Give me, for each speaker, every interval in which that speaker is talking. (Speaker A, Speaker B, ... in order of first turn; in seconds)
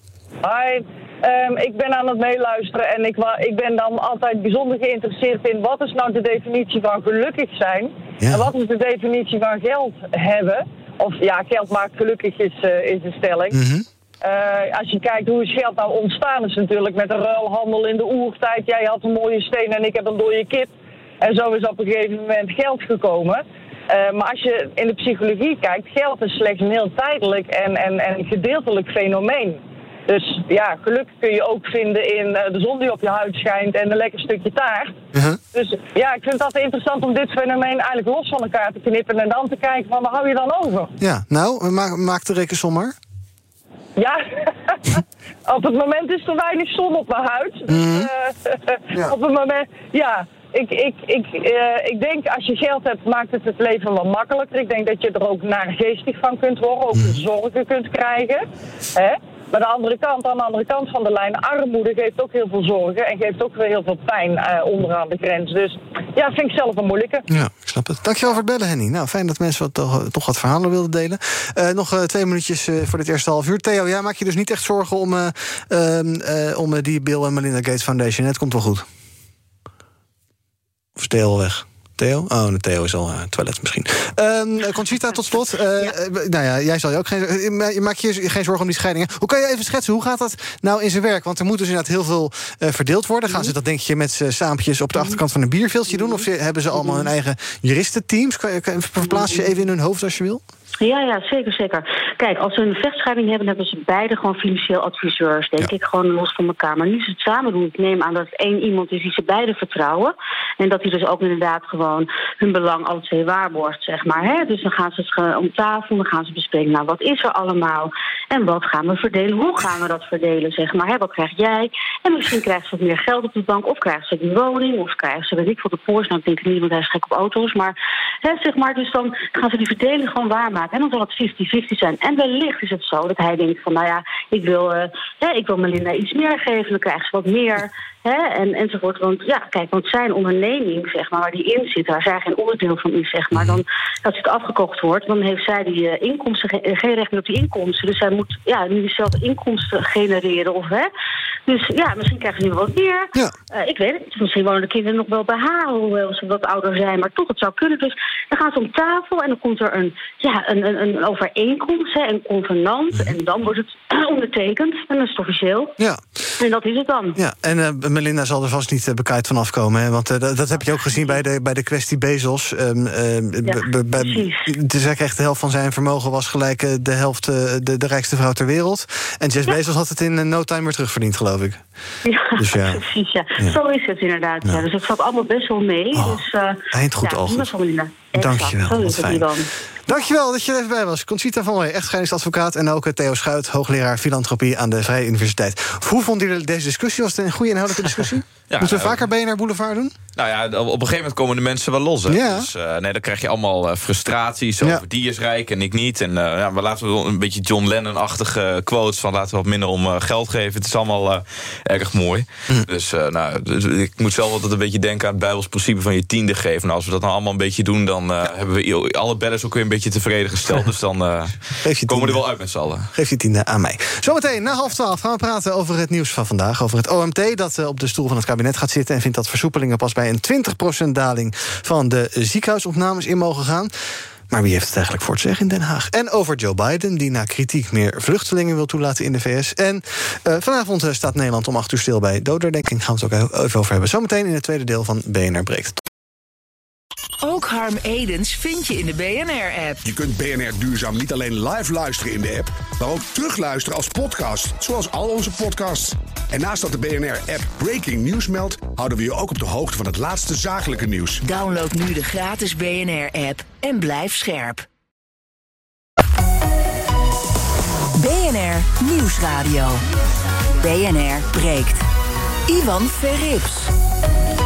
Speaker A: 0.4-13.6, 14.2-35.0, 35.5-40.9, 44.0-67.2
Speaker B: 13.5-13.8, 35.1-35.4, 41.0-42.9, 47.7-48.1, 67.3-78.8, 81.0-100.4, 143.3-143.6, 167.2-181.6, 182.3-182.8, 185.9-187.5, 188.1-189.3, 189.8-199.9, 202.1-202.5, 221.6-222.2, 222.9-233.7, 234.3-245.8
Speaker C: 95.9-96.2, 96.8-97.1, 99.0-99.5, 100.8-150.9, 151.4-165.7, 166.4-167.2, 173.4-174.5, 182.0-189.5
Speaker D: 198.5-199.0, 200.2-222.9
Speaker E: 247.2-249.8, 261.2-264.6, 267.9-269.8, 270.6-271.8, 272.5-273.7
Speaker F: 249.8-261.2